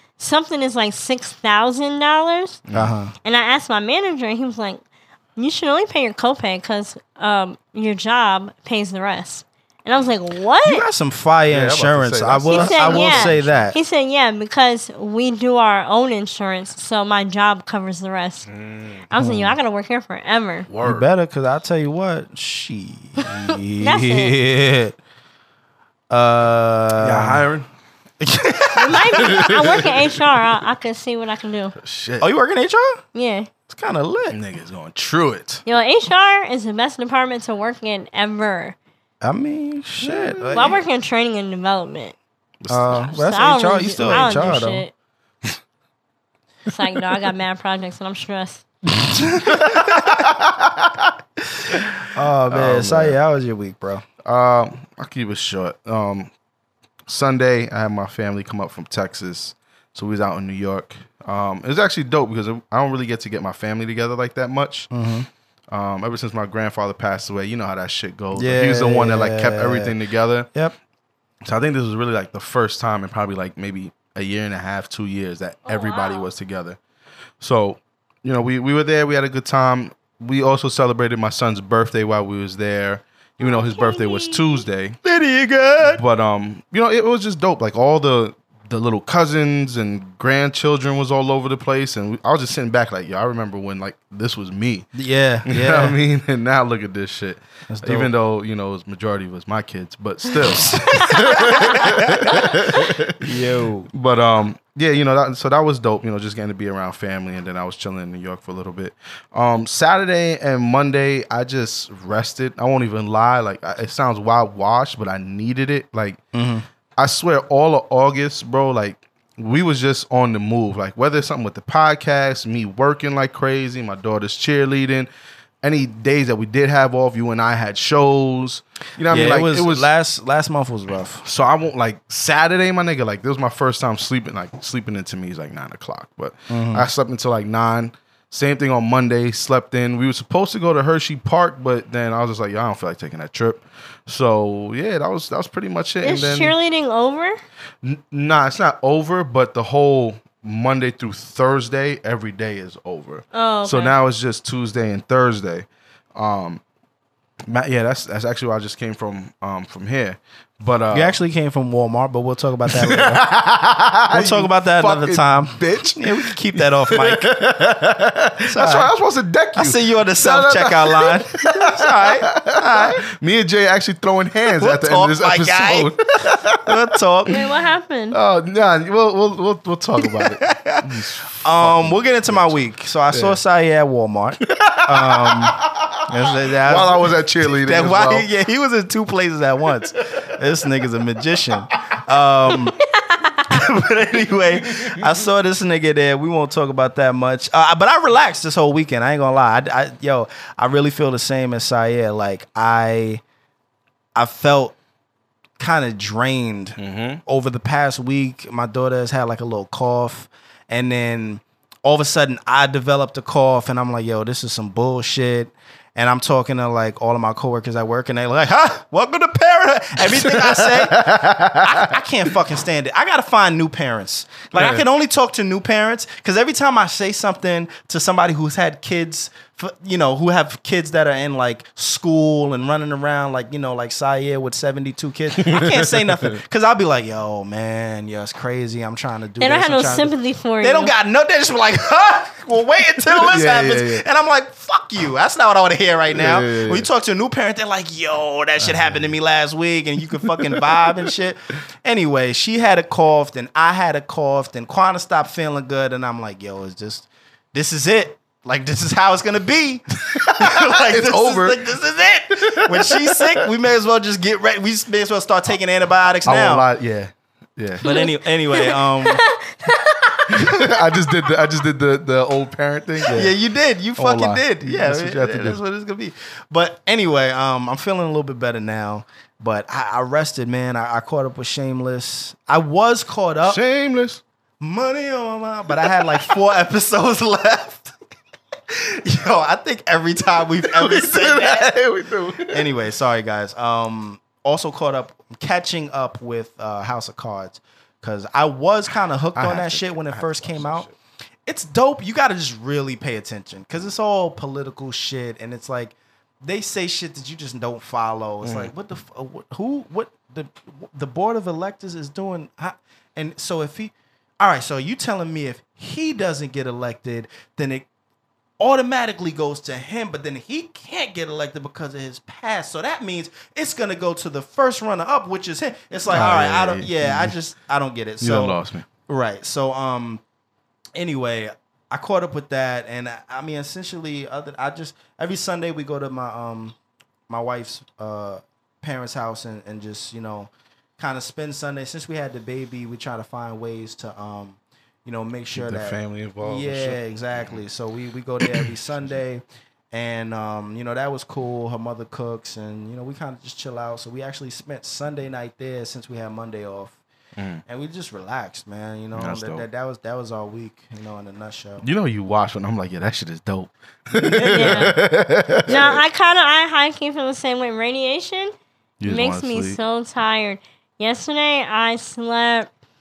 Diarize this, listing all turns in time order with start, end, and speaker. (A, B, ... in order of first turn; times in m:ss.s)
0:00.2-0:02.6 A
0:02.7-0:02.9 B
0:02.7-0:03.1 C
0:03.2-0:04.8 A
0:05.4-0:10.9 A
0:10.6-0:13.8 C
0:11.5-0:13.7 B
0:12.5-0:18.5 A
0:18.5-0:19.1 B
0:19.1-0:20.7 A
0:19.1-0:19.6 C
0:20.7-0:21.1 B
0:20.8-0:25.0 C
0:23.4-0:24.4 A
0:26.1-0:27.5 C
0:27.0-0:27.7 B
0:28.2-0:29.6 C
0:28.7-0:31.7 A
0:29.1-0:30.5 B
0:31.8-0:32.3 B
0:32.2-0:33.0 C
0:33.1-0:33.5 A
0:33.7-0:34.4 C
0:34.3-0:35.6 B
0:35.6-0:38.8 A
0:39.2-0:40.8 C
0:40.0-0:40.7 B
0:40.5-0:42.2 A
0:42.6-0:43.2 B
0:42.7-0:44.8 C
0:43.0-0:44.9 A
0:44.0-0:44.6 B
0:46.7-0:48.6 A
0:49.0-0:50.3 C
0:49.4-0:51.0 B
0:51.5-0:54.0 C
0:52.5-0:53.2 B
0:54.2-0:56.3 B
0:57.1-1:04.9 B
1:04.9-1:05.3 C
1:05.7-1:10.5 B
1:08.3-1:09.9 C
1:11.4-1:16.8 B
1:15.6-1:16.3 A
1:17.4-1:25.0 B
1:23.4-1:24.6 A
1:25.0-1:26.0 C
1:25.8-1:34.9 B
1:34.9-1:36.0 C
1:35.4-1:43.3 B
1:37.7-1:38.1 C
1:40.4-1:42.6 C
1:40.9-1:41.8 A
1:43.2-1:43.9 C
1:43.9-1:56.2 B
1:56.3-1:56.6 C
1:57.0-2:05.1 B
2:05.6-2:09.9 B
2:09.1-2:11.2 C
2:11.2-2:26.5 B
2:16.5-2:16.9 C
2:26.0-2:27.4 A
2:27.8-2:36.6 B
2:33.3-2:34.0 A
2:37.5-2:41.2 B
2:40.9-2:43.3 C
2:42.7-2:57.3 B
2:44.1-2:47.3 C
2:48.5-2:48.9 C
2:49.6-2:53.0 C
2:54.5-2:57.4 C
2:57.3-2:58.2 A
2:58.1-3:03.4 B
3:00.0-3:00.9 C
3:01.4-3:12.8 C
3:04.4-3:06.1 B
3:06.6-3:08.3 B
3:13.0-3:13.4 A
3:13.4-3:23.2 C
3:14.7-3:15.0 B
3:24.2-3:24.8 C
3:25.6-4:26.6 C
3:26.8-3:27.2 B
3:40.0-3:42.0 B
3:44.5-3:44.8 B
3:55.4-3:56.4 B
3:59.4-4:00.9 A
4:03.1-4:04.0 B
4:06.1-4:06.9 B
4:08.6-4:09.1 B
4:10.3-4:10.9 B
4:20.2-4:21.6 B
4:22.4-4:23.5 B
4:26.2-4:27.9 B
4:27.8-4:29.2 C
4:27.8-4:30.8 A
4:30.3-4:33.3 B
4:33.1-4:43.6 C
4:34.0-4:35.6 B
4:43.4-4:44.2 B
4:44.6-4:47.9 C
4:45.8-4:46.2 B
4:48.7-4:51.8 C
4:50.6-4:52.7 B
4:52.4-5:00.9 C
4:59.3-5:00.9 B
5:01.5-5:17.8 C
5:08.4-5:08.7 B
5:18.6-5:28.6 C
5:26.1-5:27.3 B
5:28.2-5:28.8 B
5:29.1-5:30.2 C
5:30.9-5:36.7 C
5:37.3-5:57.0 C
5:45.5-5:47.6 B
5:48.4-5:49.1 B
5:57.4-5:57.6 B
5:57.7-6:01.8 C
5:59.1-5:59.6 B
6:01.8-6:06.0 B
6:04.2-6:04.9 C
6:04.4-6:05.0 A
6:05.7-6:08.5 A
6:09.0-6:09.8 B
6:09.0-6:12.7 A